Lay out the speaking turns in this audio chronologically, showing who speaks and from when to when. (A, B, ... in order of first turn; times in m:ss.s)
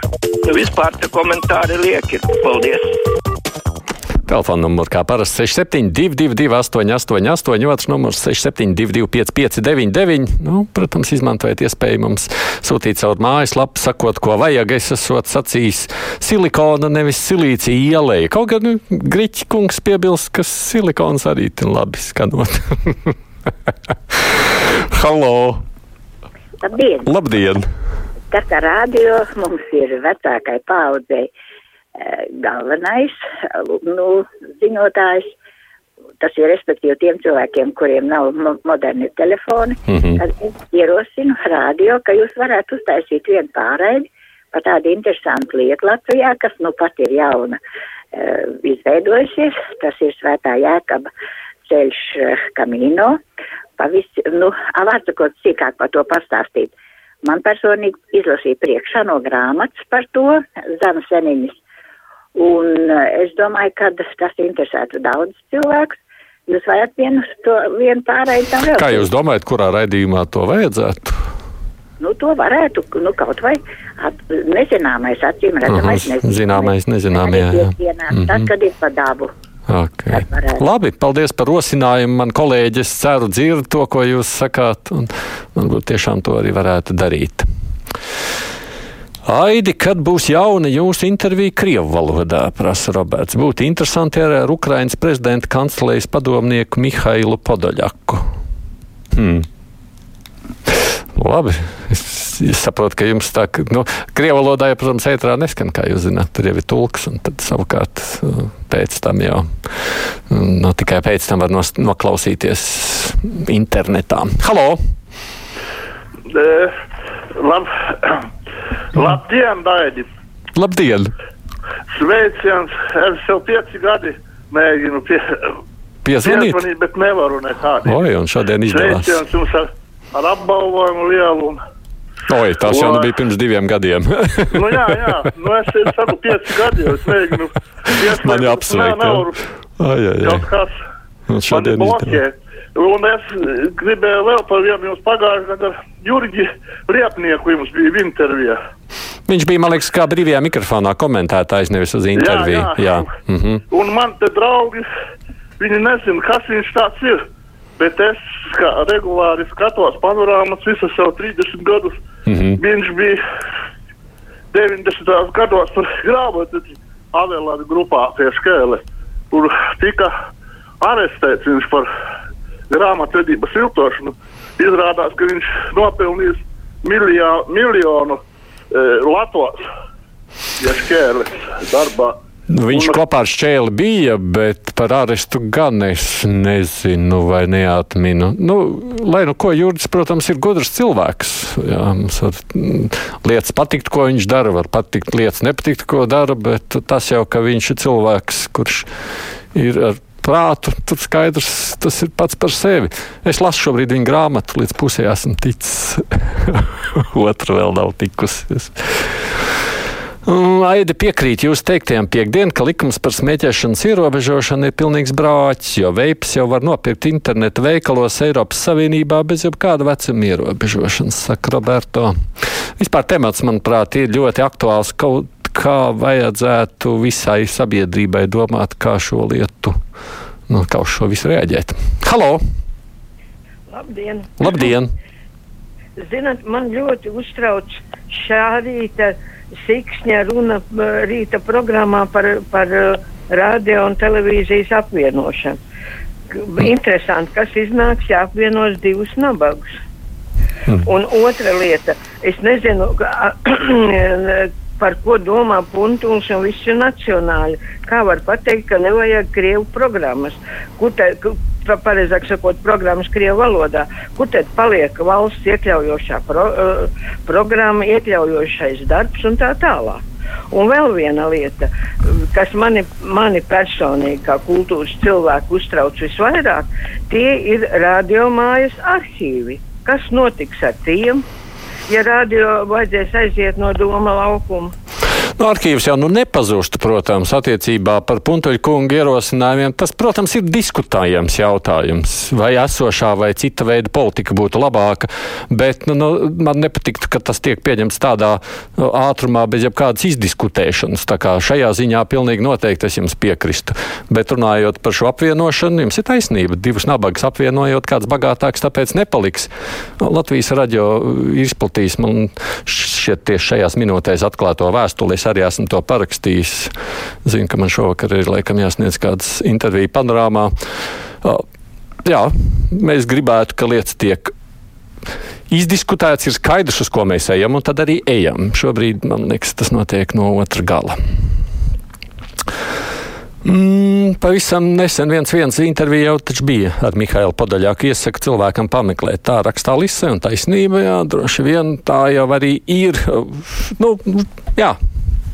0:00.4-0:02.8 A
0:04.3-0:23.1 B
0:24.9-0:25.6 B
0:26.6-0:27.0 C
0:27.0-0:27.6 B
0:28.3-0:31.3 C
0:32.0-0:35.3 C
0:36.2-0:47.6 C
0:39.9-0:40.2 B
0:48.1-0:51.1 C
0:51.7-0:53.2 C
0:53.8-0:56.7 C
0:57.2-1:01.5 C
1:02.4-1:06.0 C
1:06.5-1:09.0 C
1:08.7-1:11.1 B
1:12.0-1:19.3 C
1:15.7-1:18.5 B
1:19.7-1:27.4 B
1:20.3-1:20.6 C
1:29.3-1:38.2 B
1:39.1-1:39.4 B
1:41.1-1:49.4 B
1:50.3-1:54.8 B
1:56.3-1:56.7 D
1:57.4-1:58.2 D
1:58.9-2:00.0 D
2:00.6-2:01.1 B
2:01.9-2:05.2 D
2:06.0-2:06.6 B
2:06.2-2:08.0 D
2:07.8-2:09.2 B
2:08.7-2:11.6 D
2:12.3-2:15.2 B
2:12.7-2:13.0 D
2:14.5-2:19.4 D
2:17.9-2:20.5 B
2:20.2-2:20.7 D
2:21.3-2:22.2 B
2:21.5-2:28.6 D
2:29.3-2:33.6 B
2:32.2-2:33.1 D
2:33.7-2:34.8 D
2:35.6-2:37.2 D
2:37.8-2:41.9 D
2:42.3-2:42.6 B
2:42.6-2:43.2 D
2:44.5-2:50.1 D
2:50.8-2:51.8 D
2:52.7-2:58.2 D
2:58.7-2:59.6 D
3:00.6-3:02.2 D
3:02.5-3:18.9 B
3:02.7-3:03.0 D
3:19.5-3:29.2 B
3:30.2-3:42.1 B
3:42.8-3:49.7 B
3:50.5-3:52.4 B
3:53.7-3:54.5 E
3:54.4-3:54.9 B
3:56.0-4:05.6 E
4:06.3-4:09.6 E
4:10.8-4:41.2 E
4:41.9-4:44.7 E
4:45.4-5:16.7 B
5:17.2-5:20.5 B
5:22.0-5:24.3 B
5:25.5-5:30.9 B
5:33.4-5:44.7 B